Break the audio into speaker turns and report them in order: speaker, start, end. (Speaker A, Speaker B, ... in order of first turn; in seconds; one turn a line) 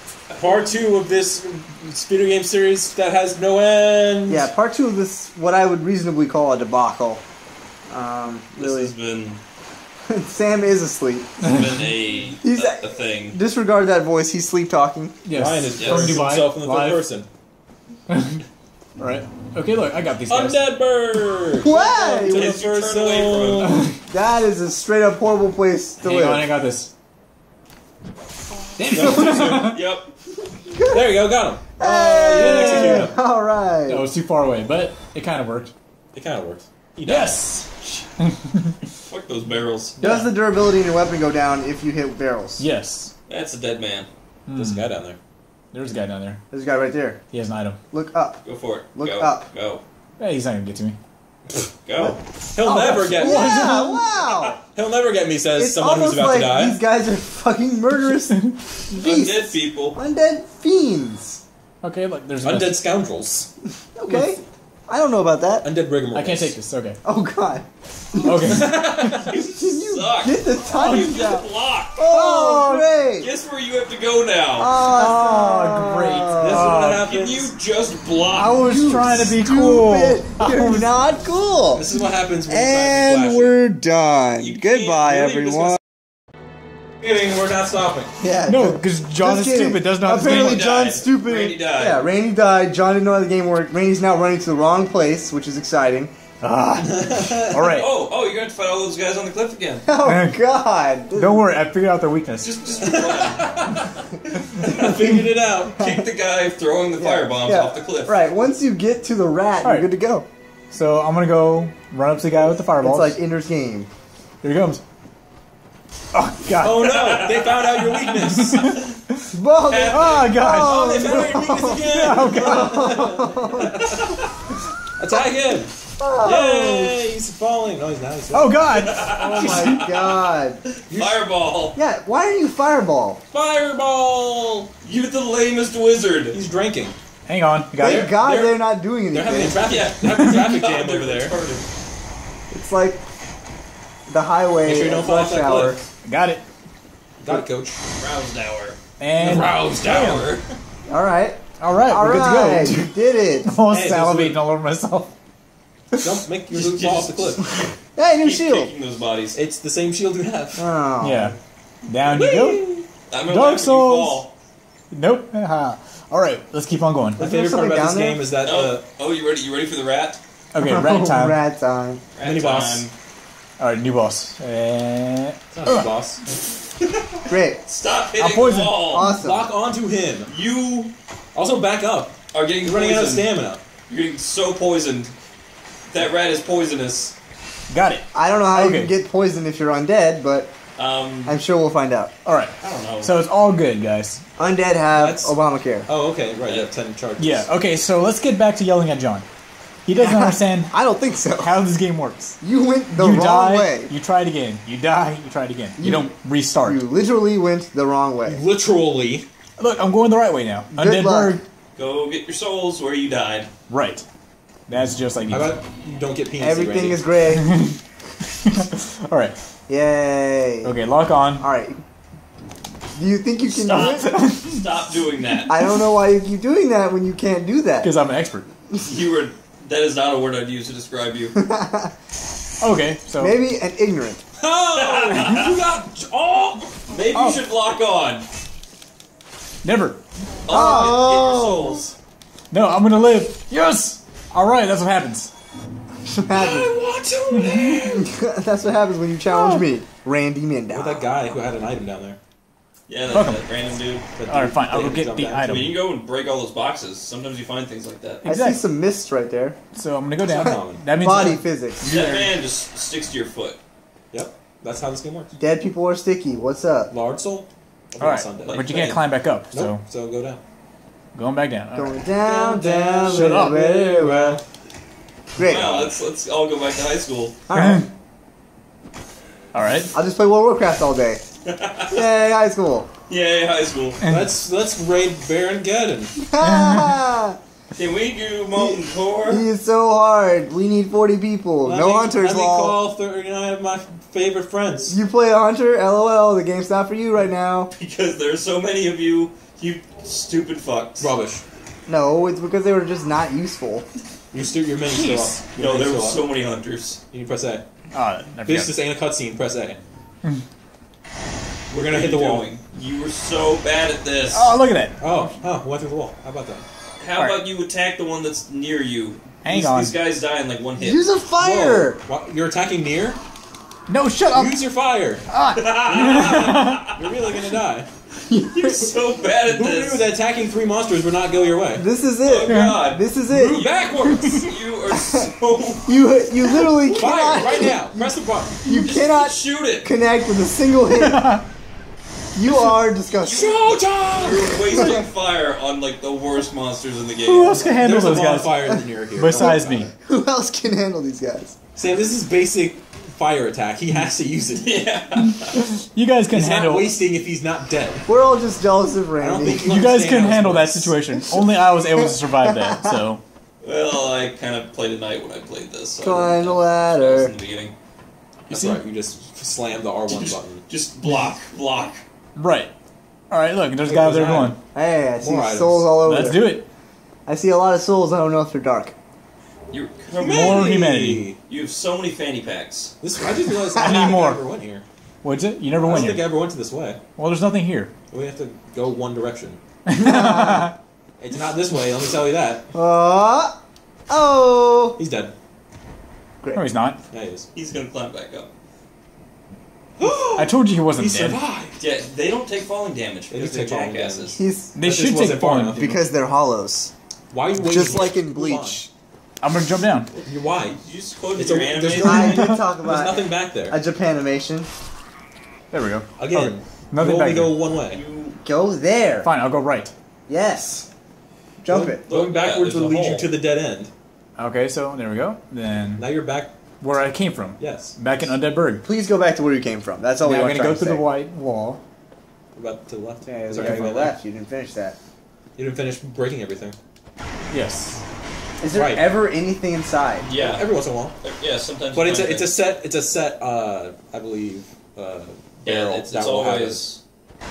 Speaker A: 0.3-0.7
Speaker B: 0.4-4.5
Speaker C: 4.3-7.2
Speaker C: 7.9-8.9
Speaker A: 8.6-9.4
Speaker C: 10.1-11.4
Speaker A: 11.4-13.4
Speaker C: 12.4-15.2
Speaker D: 15.2-17.0
Speaker B: 15.3-17.3
Speaker A: 15.7-16.2
Speaker D: 18.1-18.4
Speaker D: 19.0-20.6
Speaker B: 20.3-23.9
Speaker C: 21.6-22.5
Speaker A: 22.2-23.8
Speaker D: 23.6-24.0
Speaker C: 24.1-26.5
Speaker D: 26.0-26.9
Speaker D: 28.8-29.8
Speaker B: 28.9-29.7
Speaker A: 29.4-30.1
Speaker C: 30.7-31.0
Speaker B: 30.9-33.1
Speaker C: 31.8-34.1
Speaker D: 32.3-33.1
Speaker D: 33.9-35.7
Speaker B: 36.1-37.4
Speaker D: 37.1-38.8
Speaker A: 39.1-40.0
Speaker D: 40.0-40.3
Speaker C: 40.0-42.6
Speaker D: 42.6-43.1
Speaker A: 43.3-44.1
Speaker D: 44.5-44.9
Speaker B: 44.5-45.2
Speaker D: 45.7-46.4
Speaker C: 46.5-47.2
Speaker D: 47.3-47.8
Speaker C: 47.9-48.4
Speaker A: 48.5-49.8
Speaker C: 49.0-49.5
Speaker D: 50.2-51.0
Speaker A: 51.9-52.2
Speaker C: 52.0-54.6
Speaker B: 52.5-53.8
Speaker D: 52.7-54.0
Speaker A: 54.2-54.5
Speaker B: 54.7-56.8
Speaker C: 55.5-61.4
Speaker A: 59.0-60.0
Speaker D: 61.8-62.8
Speaker B: 62.4-63.5
Speaker C: 64.0-65.7
Speaker B: 65.6-66.6
Speaker D: 66.1-67.0
Speaker C: 67.0-68.7
Speaker D: 68.2-69.2
Speaker A: 68.5-72.1
Speaker C: 69.6-71.5
Speaker C: 72.0-73.3
Speaker A: 73.2-74.8
Speaker C: 74.6-76.7
Speaker D: 74.9-77.1
Speaker A: 76.4-78.6
Speaker B: 76.5-77.5
Speaker C: 78.3-81.9
Speaker D: 78.5-80.9
Speaker B: 81.7-83.6
Speaker C: 82.5-85.8
Speaker A: 84.4-85.8
Speaker B: 87.0-88.1
Speaker C: 88.2-96.1
Speaker D: 88.5-90.7
Speaker A: 90.2-92.0
Speaker D: 96.4-97.9
Speaker B: 96.8-97.7
Speaker A: 97.7-99.9
Speaker C: 99.9-101.4
Speaker D: 100.0-100.4
Speaker D: 101.1-102.5
Speaker A: 102.4-108.1
Speaker B: 102.8-103.9
Speaker B: 104.6-105.8
Speaker C: 105.8-106.1
Speaker C: 107.0-110.3
Speaker D: 109.6-109.9
Speaker D: 110.7-113.2
Speaker C: 112.8-113.9
Speaker D: 114.4-114.8
Speaker D: 116.1-117.0
Speaker A: 116.5-118.2
Speaker B: 116.8-118.8
Speaker D: 118.3-118.9
Speaker C: 119.3-123.7
Speaker A: 119.7-122.4
Speaker D: 119.9-121.4
Speaker B: 120.7-123.8
Speaker D: 122.0-122.8
Speaker A: 123.6-124.3
Speaker B: 125.0-128.6
Speaker C: 126.0-127.0
Speaker D: 128.3-129.9
Speaker A: 128.7-130.1
Speaker C: 129.2-130.6
Speaker A: 130.7-131.8
Speaker B: 130.9-131.2
Speaker C: 131.8-133.2
Speaker B: 133.3-134.7
Speaker A: 134.8-136.4
Speaker B: 136.3-136.9
Speaker D: 137.3-138.2
Speaker C: 137.8-139.6
Speaker B: 137.8-141.4
Speaker A: 139.7-141.7
Speaker C: 142.5-143.0
Speaker C: 144.1-145.8
Speaker B: 144.7-145.8
Speaker D: 146.0-146.4
Speaker B: 147.2-147.8
Speaker A: 148.0-150.5
Speaker D: 149.0-150.3
Speaker B: 149.2-149.7
Speaker C: 150.9-153.6
Speaker D: 151.6-155.1
Speaker B: 153.7-154.4
Speaker B: 156.0-157.4
Speaker A: 156.5-159.4
Speaker C: 158.0-158.7
Speaker B: 159.3-160.7
Speaker C: 160.6-161.3
Speaker D: 161.0-161.3
Speaker D: 161.9-162.8
Speaker B: 162.1-162.8
Speaker A: 163.1-164.3
Speaker D: 163.3-164.2
Speaker D: 164.9-167.2
Speaker B: 167.2-168.8
Speaker C: 167.2-168.3
Speaker A: 168.4-170.2
Speaker D: 170.5-171.4
Speaker C: 170.6-172.0
Speaker A: 172.2-172.9
Speaker B: 172.2-172.9
Speaker D: 173.6-175.8
Speaker B: 175.5-176.2
Speaker C: 177.3-177.6
Speaker A: 177.7-179.1
Speaker D: 178.2-178.8
Speaker C: 178.9-179.5
Speaker B: 179.0-180.3
Speaker A: 180.3-180.9
Speaker B: 181.3-183.6
Speaker A: 182.3-183.3
Speaker A: 183.9-185.1
Speaker A: 185.9-187.2
Speaker D: 187.7-188.9
Speaker C: 188.1-190.5
Speaker A: 190.8-191.4
Speaker C: 191.3-192.1
Speaker D: 192.2-194.2
Speaker A: 192.6-193.1
Speaker C: 194.4-195.9
Speaker B: 194.9-195.4
Speaker B: 195.9-197.5
Speaker A: 196.4-196.7
Speaker D: 197.2-199.3
Speaker D: 199.8-200.8
Speaker C: 200.0-201.5
Speaker D: 201.4-202.4
Speaker C: 202.4-203.9
Speaker D: 202.9-206.8
Speaker C: 205.8-208.4
Speaker B: 208.3-209.3
Speaker D: 209.6-211.4
Speaker C: 210.7-211.4
Speaker A: 211.8-213.5
Speaker D: 213.7-214.1
Speaker D: 214.7-215.5
Speaker B: 215.3-217.1
Speaker C: 216.4-217.5
Speaker D: 217.4-217.8
Speaker D: 218.4-219.3
Speaker C: 219.7-220.7
Speaker D: 220.6-221.4
Speaker C: 221.4-221.8
Speaker C: 222.9-224.2
Speaker A: 223.5-225.6
Speaker D: 223.7-224.6
Speaker C: 225.5-227.9
Speaker D: 227.8-228.5
Speaker A: 228.8-231.3
Speaker C: 231.3-231.9
Speaker D: 232.6-233.4
Speaker C: 233.2-234.2
Speaker B: 234.4-236.8
Speaker A: 234.7-235.5
Speaker A: 236.9-238.2
Speaker C: 237.1-237.4
Speaker D: 239.6-240.0
Speaker A: 240.5-241.9
Speaker C: 240.5-241.8
Speaker D: 242.5-245.3
Speaker C: 246.1-246.8
Speaker B: 246.3-248.0
Speaker D: 247.3-247.8
Speaker C: 247.8-251.1
Speaker D: 249.3-249.6
Speaker B: 250.7-252.2
Speaker A: 252.9-254.1
Speaker D: 253.1-253.5
Speaker B: 254.2-255.7
Speaker D: 254.3-255.8
Speaker A: 255.4-258.2
Speaker D: 258.2-258.6
Speaker C: 258.3-259.6
Speaker D: 259.7-262.4
Speaker B: 260.2-260.8
Speaker C: 260.4-261.9
Speaker A: 261.9-263.6
Speaker B: 264.1-265.3
Speaker C: 265.4-266.9
Speaker B: 266.9-268.9
Speaker D: 268.0-269.8
Speaker A: 268.4-269.0
Speaker B: 269.5-270.4
Speaker D: 271.1-272.0
Speaker C: 271.7-274.4
Speaker B: 272.2-274.4
Speaker D: 273.1-273.8
Speaker C: 275.4-275.9
Speaker A: 275.4-277.4
Speaker C: 277.5-277.9
Speaker D: 277.5-277.9
Speaker D: 279.5-279.9
Speaker C: 279.9-281.2
Speaker A: 281.5-282.1
Speaker C: 281.9-282.9
Speaker A: 283.1-284.0
Speaker D: 284.0-284.3
Speaker B: 284.1-286.1
Speaker C: 286.2-287.4
Speaker D: 286.4-286.9
Speaker A: 287.8-289.5
Speaker C: 288.6-292.8
Speaker B: 291.6-295.0
Speaker C: 294.9-297.7
Speaker A: 297.7-301.1
Speaker B: 301.0-301.4
Speaker C: 301.9-303.9
Speaker B: 304.3-306.3
Speaker D: 304.9-305.4
Speaker A: 305.6-307.0
Speaker B: 307.1-307.6
Speaker D: 307.9-308.7
Speaker B: 308.4-309.8
Speaker A: 311.7-314.5
Speaker B: 311.7-312.5
Speaker D: 314.3-315.1
Speaker B: 315.0-316.6
Speaker A: 317.0-321.1
Speaker D: 317.1-317.4
Speaker D: 319.4-320.0
Speaker C: 320.8-322.0
Speaker B: 321.4-323.2
Speaker D: 323.9-324.6
Speaker B: 324.3-325.2
Speaker D: 325.3-326.9
Speaker A: 325.5-327.0
Speaker B: 326.0-326.3
Speaker B: 327.0-327.9
Speaker C: 328.3-328.9
Speaker A: 328.5-330.1
Speaker B: 329.5-331.9
Speaker C: 331.7-333.6
Speaker A: 332.2-336.0
Speaker D: 332.5-332.9
Speaker B: 333.3-334.5
Speaker C: 334.9-335.2
Speaker C: 335.9-338.1
Speaker A: 336.8-337.4
Speaker B: 336.9-338.7
Speaker C: 338.6-341.4
Speaker A: 338.8-339.9
Speaker D: 341.0-341.4
Speaker C: 342.4-343.6
Speaker B: 342.7-344.5
Speaker A: 343.1-343.6
Speaker A: 344.1-347.7
Speaker D: 347.2-349.9
Speaker B: 347.7-349.9
Speaker C: 349.3-351.6
Speaker B: 351.8-354.8
Speaker A: 354.5-355.6
Speaker D: 355.2-356.9
Speaker B: 356.3-358.1
Speaker C: 358.1-359.8
Speaker B: 359.2-361.0
Speaker D: 359.7-363.2
Speaker C: 361.4-362.9
Speaker A: 363.6-367.7
Speaker C: 366.0-367.3
Speaker B: 368.5-370.6
Speaker D: 368.5-368.8
Speaker A: 368.5-368.8
Speaker A: 370.1-372.0
Speaker D: 372.4-372.7
Speaker D: 373.3-374.6
Speaker B: 373.8-374.6
Speaker C: 374.7-376.6
Speaker B: 375.2-375.9
Speaker D: 376.0-376.7
Speaker C: 377.3-378.9
Speaker A: 379.7-380.7
Speaker B: 380.2-381.4
Speaker D: 380.2-381.2
Speaker A: 381.5-382.9
Speaker B: 383.0-384.9
Speaker C: 383.6-384.3
Speaker D: 383.8-384.4
Speaker D: 385.2-386.3
Speaker B: 385.8-387.0
Speaker D: 387.2-387.9
Speaker B: 388.1-389.6
Speaker D: 389.9-390.7
Speaker C: 390.0-390.7
Speaker B: 391.2-392.7
Speaker C: 392.7-393.6
Speaker C: 394.1-395.0
Speaker B: 395.0-395.3
Speaker D: 396.5-397.0
Speaker B: 397.1-397.5
Speaker A: 397.5-398.5
Speaker B: 400.0-401.8
Speaker D: 400.4-401.4
Speaker A: 401.8-404.4
Speaker B: 403.3-406.0
Speaker C: 404.4-404.8
Speaker D: 404.8-406.0
Speaker C: 405.8-406.9
Speaker B: 407.3-408.9
Speaker C: 407.6-408.9
Speaker D: 409.4-410.1
Speaker B: 410.2-410.8
Speaker A: 410.7-412.4
Speaker B: 411.4-413.8
Speaker C: 412.0-414.7
Speaker D: 415.7-417.6
Speaker B: 416.2-418.0
Speaker A: 417.9-418.4
Speaker C: 418.4-419.3
Speaker D: 419.2-419.9
Speaker C: 420.3-420.9
Speaker C: 421.6-422.0
Speaker B: 421.7-423.9
Speaker A: 422.1-423.3
Speaker D: 424.4-426.1
Speaker B: 426.0-426.5
Speaker D: 426.8-428.9
Speaker B: 427.6-427.9
Speaker C: 428.8-431.1
Speaker D: 430.2-431.8
Speaker B: 432.6-434.2
Speaker C: 433.3-435.0
Speaker B: 435.6-436.8
Speaker D: 437.5-438.0
Speaker C: 438.6-440.3
Speaker B: 438.7-439.0
Speaker A: 440.2-440.7
Speaker B: 440.4-441.1
Speaker A: 441.2-442.6
Speaker B: 441.9-446.8
Speaker A: 445.6-447.0